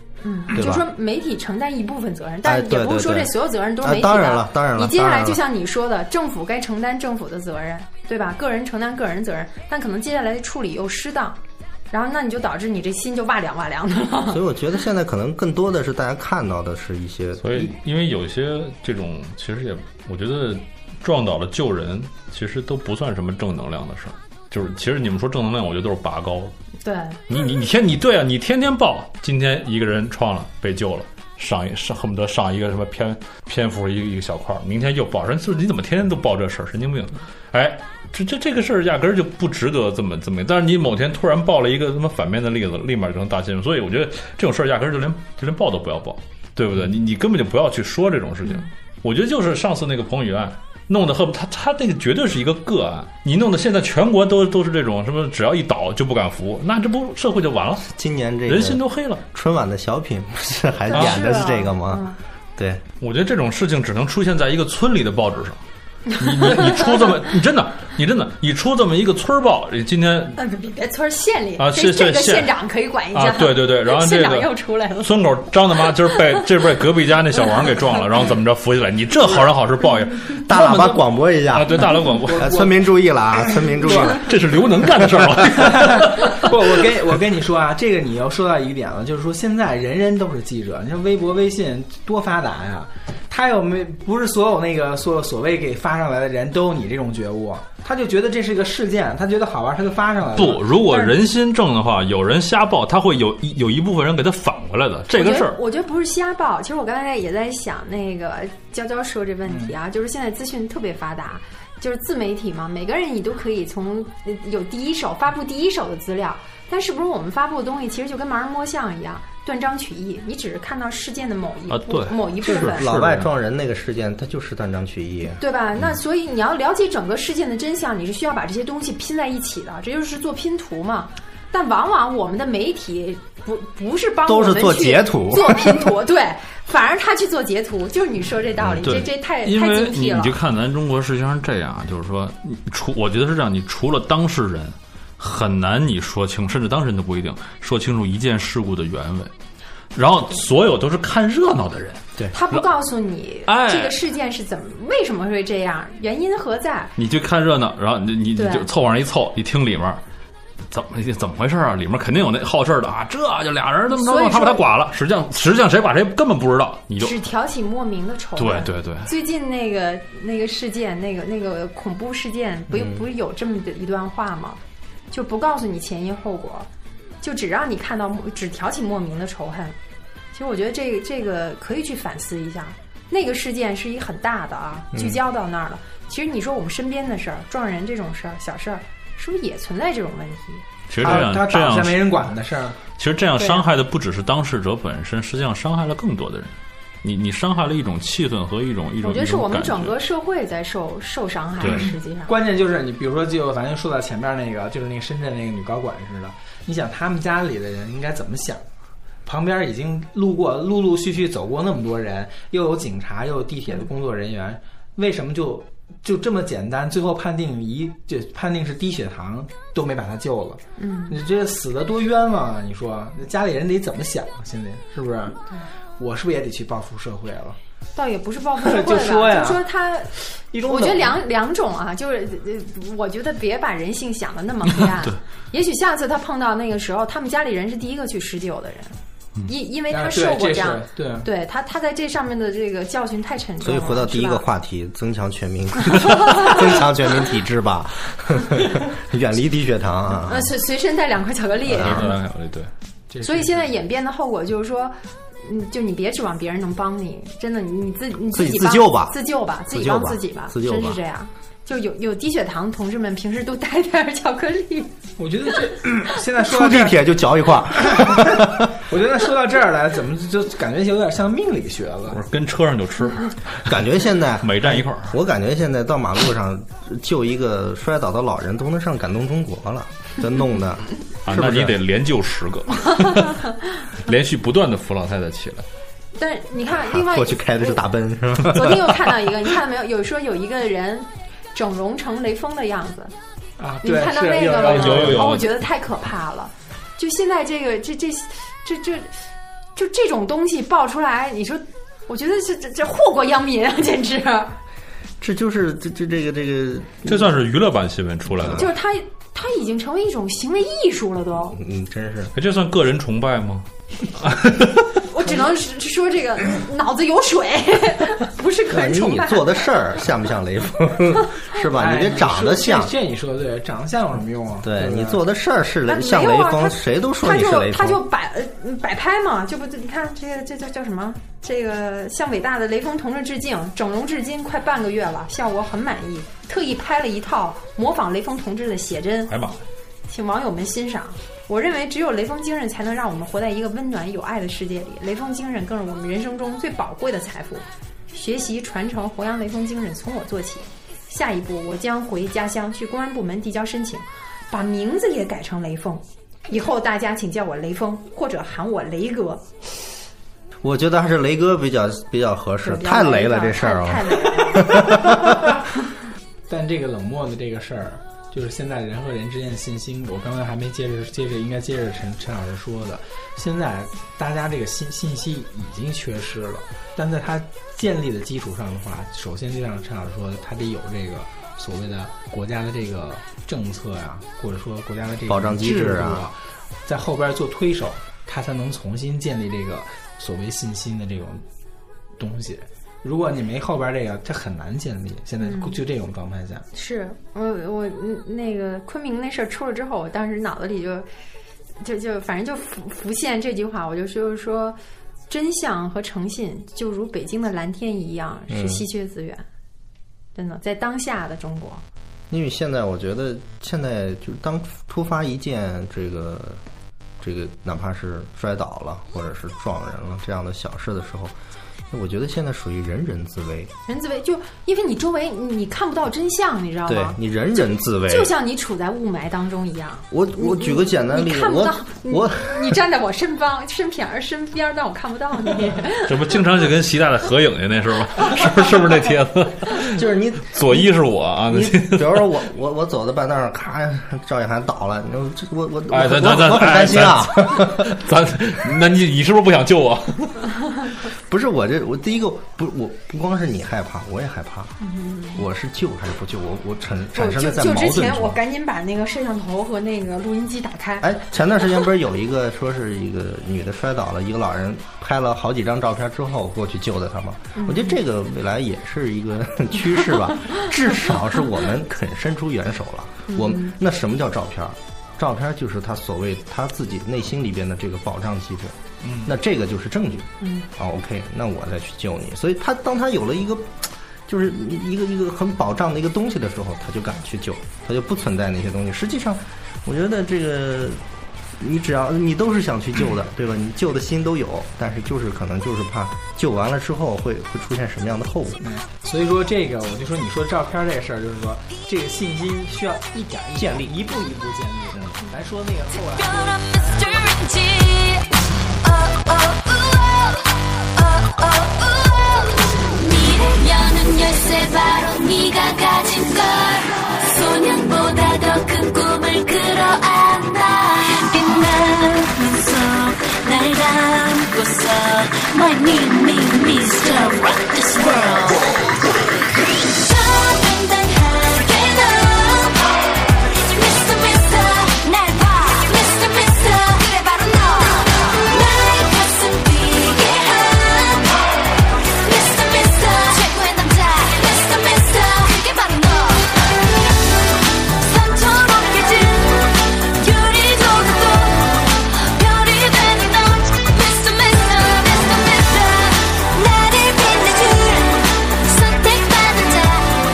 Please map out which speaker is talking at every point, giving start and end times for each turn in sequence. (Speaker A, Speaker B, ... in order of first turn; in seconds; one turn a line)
Speaker A: 0.2-11.4
Speaker B: 0.5-0.9
Speaker B: 2.4-5.4
Speaker A: 11.9-14.4
Speaker B: 14.3-17.7
Speaker C: 17.4-26.5
Speaker A: 26.8-27.2
Speaker C: 27.3-57.9
Speaker B: 57.9-62.8
Speaker C: 58.5-59.2
Speaker A: 60.9-62.2
Speaker C: 60.9-61.2
Speaker C: 63.0-65.6
Speaker C: 66.1-70.4
Speaker A: 70.3-76.2
Speaker C: 71.6-72.5
Speaker C: 73.1-82.5
Speaker B: 80.5-81.8
Speaker D: 82.2-84.2
Speaker B: 82.3-84.2
Speaker C: 84.1-86.7
Speaker D: 85.5-100.6
Speaker C: 100.3-105.6
Speaker A: 105.1-122.9
Speaker D: 109.5-109.7
Speaker C: 121.7-123.3
Speaker B: 122.4-125.4
Speaker A: 125.4-140.3
Speaker B: 134.2-135.9
Speaker B: 138.6-139.0
Speaker C: 138.8-149.3
Speaker C: 149.9-152.6
Speaker A: 152.3-156.9
Speaker C: 153.4-153.9
Speaker C: 157.0-160.0
Speaker A: 158.3-158.7
Speaker C: 160.7-167.2
Speaker A: 163.9-164.6
Speaker A: 167.0-174.6
Speaker C: 168.4-169.1
Speaker B: 172.7-173.0
Speaker A: 175.1-176.7
Speaker A: 177.2-179.7
Speaker A: 180.3-190.6
Speaker B: 184.9-185.2
Speaker C: 190.9-192.1
Speaker D: 190.9-192.8
Speaker C: 193.0-199.9
Speaker A: 193.3-193.7
Speaker A: 199.0-202.3
Speaker D: 201.6-208.6
Speaker D: 209.2-225.4
Speaker A: 220.8-221.2
Speaker D: 226.0-227.6
Speaker A: 227.9-244.4
Speaker D: 228.6-229.7
Speaker D: 230.3-231.2
Speaker D: 239.9-241.3
Speaker B: 243.6-250.5
Speaker A: 245.8-246.6
Speaker A: 250.1-252.2
Speaker B: 251.7-252.1
Speaker C: 251.7-252.7
Speaker D: 253.1-253.7
Speaker A: 253.2-264.9
Speaker B: 258.3-259.2
Speaker B: 259.7-261.0
Speaker D: 265.2-267.0
Speaker B: 266.4-268.7
Speaker D: 268.7-272.2
Speaker C: 272.1-273.7
Speaker B: 273.6-281.8
Speaker C: 274.4-275.1
Speaker C: 281.2-285.6
Speaker A: 286.1-287.8
Speaker B: 286.7-289.1
Speaker A: 288.4-293.1
Speaker D: 293.6-295.4
Speaker A: 293.8-299.1
Speaker C: 294.6-295.5
Speaker A: 299.8-304.5
Speaker B: 305.2-307.4
Speaker C: 307.1-308.7
Speaker B: 308.4-308.7
Speaker A: 308.4-311.6
Speaker B: 311.5-312.3
Speaker C: 312.3-315.0
Speaker A: 315.1-319.6
Speaker B: 318.7-322.9
Speaker D: 321.8-325.2
Speaker B: 324.6-328.0
Speaker A: 325.9-339.3
Speaker C: 339.3-339.6
Speaker A: 340.1-359.4
Speaker B: 360.6-365.5
Speaker A: 362.6-365.3
Speaker D: 366.5-391.4
Speaker B: 385.3-386.3
Speaker D: 392.2-396.6
Speaker A: 395.4-395.8
Speaker A: 396.7-401.1
Speaker A: 401.8-404.8
Speaker A: 405.3-409.4
Speaker B: 408.5-408.8
Speaker A: 410.3-411.8
Speaker B: 412.3-416.6
Speaker B: 417.2-421.3
Speaker B: 421.9-423.7
Speaker A: 423.9-427.2
Speaker B: 426.9-428.3
Speaker A: 428.1-436.3
Speaker B: 430.1-432.8
Speaker C: 436.1-442.2
Speaker B: 439.9-440.9
Speaker B: 441.5-447.9
Speaker C: 445.9-450.6
Speaker B: 451.2-454.8
Speaker A: 454.8-455.4
Speaker B: 455.3-458.4
Speaker A: 457.1-461.0
Speaker B: 461.0-491.0
Speaker A: 467.6-468.0
Speaker A: 473.3-473.7
Speaker D: 479.0-479.3
Speaker A: 480.4-480.7
Speaker B: 491.6-498.6
Speaker D: 498.6-507.1
Speaker B: 503.6-503.9
Speaker E: 507.5-508.2
Speaker E: 513.0-528.6
Speaker E: 530.1-532.8
Speaker E: 533.7-538.0
Speaker E: 538.5-541.4
Speaker E: 542.2-546.4
Speaker E: 548.1-551.8
Speaker E: 552.4-556.0
Speaker E: 556.6-558.1
Speaker E: 558.8-560.0